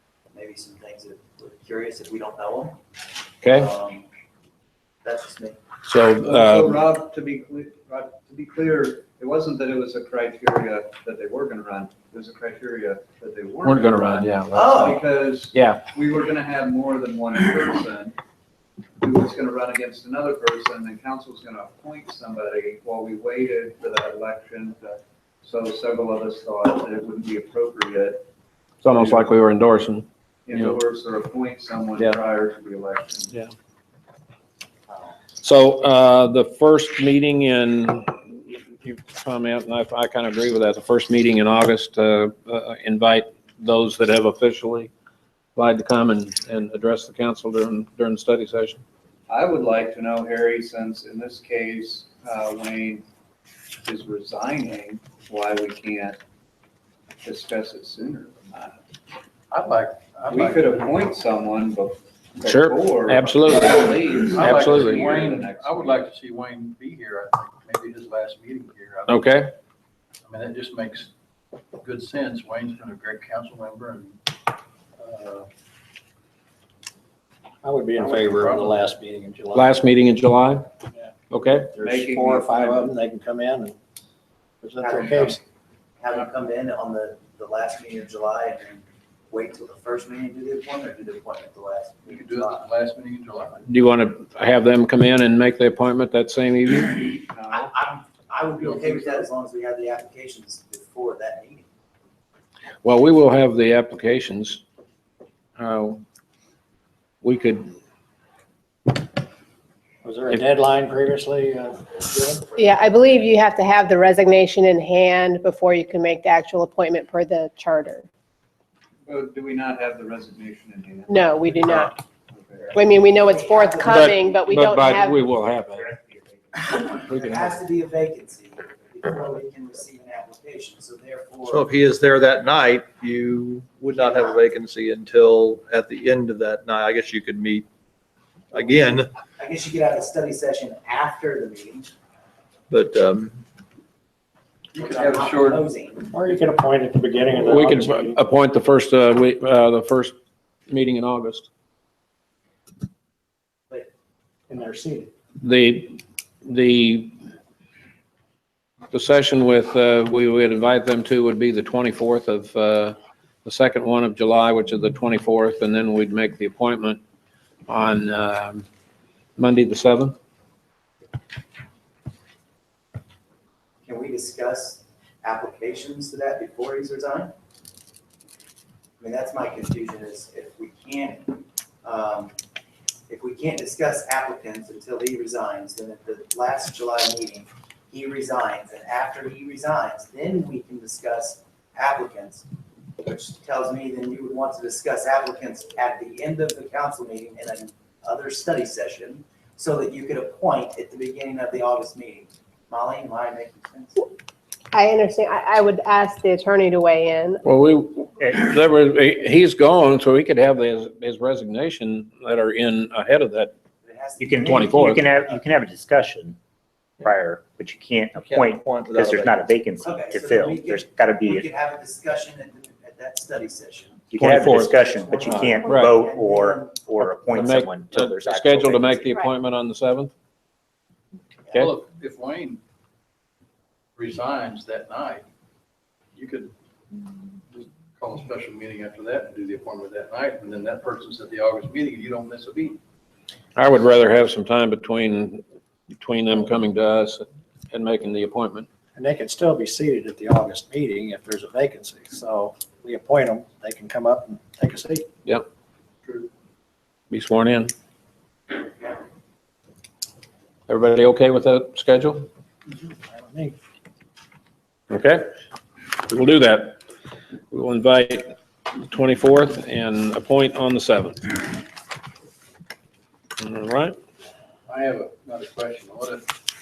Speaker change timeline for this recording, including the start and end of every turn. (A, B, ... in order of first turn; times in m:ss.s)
0:00.3-0:02.8 A
0:03.4-0:03.7 B
0:03.5-0:04.1 A
0:05.0-0:05.6 A
0:05.9-0:06.8 B
0:06.2-0:18.2 C
0:13.6-0:15.0 B
0:14.5-0:15.0 A
0:15.5-0:15.9 B
0:19.0-0:28.3 C
0:28.8-0:30.8 B
0:28.9-0:29.3 C
0:30.5-0:33.4 C
0:35.4-0:44.9 B
0:45.6-0:48.8 B
0:49.3-0:53.0 C
0:53.8-0:56.2 C
0:57.2-0:58.8 C
0:59.5-1:01.1 D
1:00.3-1:06.1 C
1:02.4-1:05.1 B
1:04.4-1:09.2 D
1:09.1-1:09.5 B
1:10.2-1:11.1 D
1:11.8-1:14.2 D
1:15.0-1:15.5 D
1:17.6-1:19.7 E
1:18.0-1:19.6 D
1:19.6-1:20.7 B
1:20.9-1:23.8 E
1:21.3-1:21.7 B
1:21.8-1:22.9 C
1:24.6-1:25.4 E
1:24.8-1:25.4 A
1:26.0-1:32.7 A
1:32.1-1:33.7 D
1:33.7-1:37.1 B
1:37.3-1:37.7 C
1:37.5-1:41.7 A
1:38.6-1:39.3 D
1:42.8-1:44.6 B
1:45.6-1:46.0 B
1:47.2-1:47.7 B
1:50.0-1:52.5 E
1:52.6-1:58.1 F
1:59.0-2:02.8 C
2:01.1-2:02.0 F
2:02.6-2:04.4 A
2:02.8-2:05.2 F
2:03.9-2:06.0 B
2:06.6-2:11.7 A
2:07.1-2:07.6 B
2:11.5-2:17.7 G
2:14.0-2:14.4 A
2:18.5-2:19.1 G
2:18.5-2:21.9 A
2:22.7-2:23.4 G
2:24.7-2:26.1 A
2:24.8-2:25.6 C
2:26.1-2:28.2 E
2:27.4-2:30.2 B
2:30.7-2:31.5 B
2:34.5-2:35.1 E
2:35.4-2:37.1 B
2:38.9-2:47.0 B
2:47.7-2:48.6 B
2:49.4-2:50.2 B
2:53.8-2:57.3 A
2:59.0-3:02.3 A
3:03.1-3:12.5 A
3:13.0-3:24.0 A
3:24.7-3:27.4 F
3:27.4-3:33.5 B
3:33.8-3:35.5 A
3:34.2-3:36.4 H
3:34.4-3:35.0 B
3:37.0-3:41.4 H
3:38.2-3:39.5 G
3:39.8-3:44.3 A
3:44.1-3:49.2 H
3:44.2-3:45.9 B
3:44.9-3:47.0 A
3:47.3-3:50.1 B
3:51.5-3:52.6 D
3:54.0-3:55.2 D
3:56.2-3:56.5 D
3:57.5-4:02.8 D
4:03.6-4:08.7 B
4:09.0-4:15.0 E
4:17.1-4:17.7 B
4:20.7-4:22.3 B
4:22.8-4:23.6 E
4:24.9-4:25.3 B
4:26.1-4:26.8 B
4:27.5-4:28.3 B
4:28.9-4:31.6 B
4:33.4-4:34.0 B
4:34.7-4:36.3 D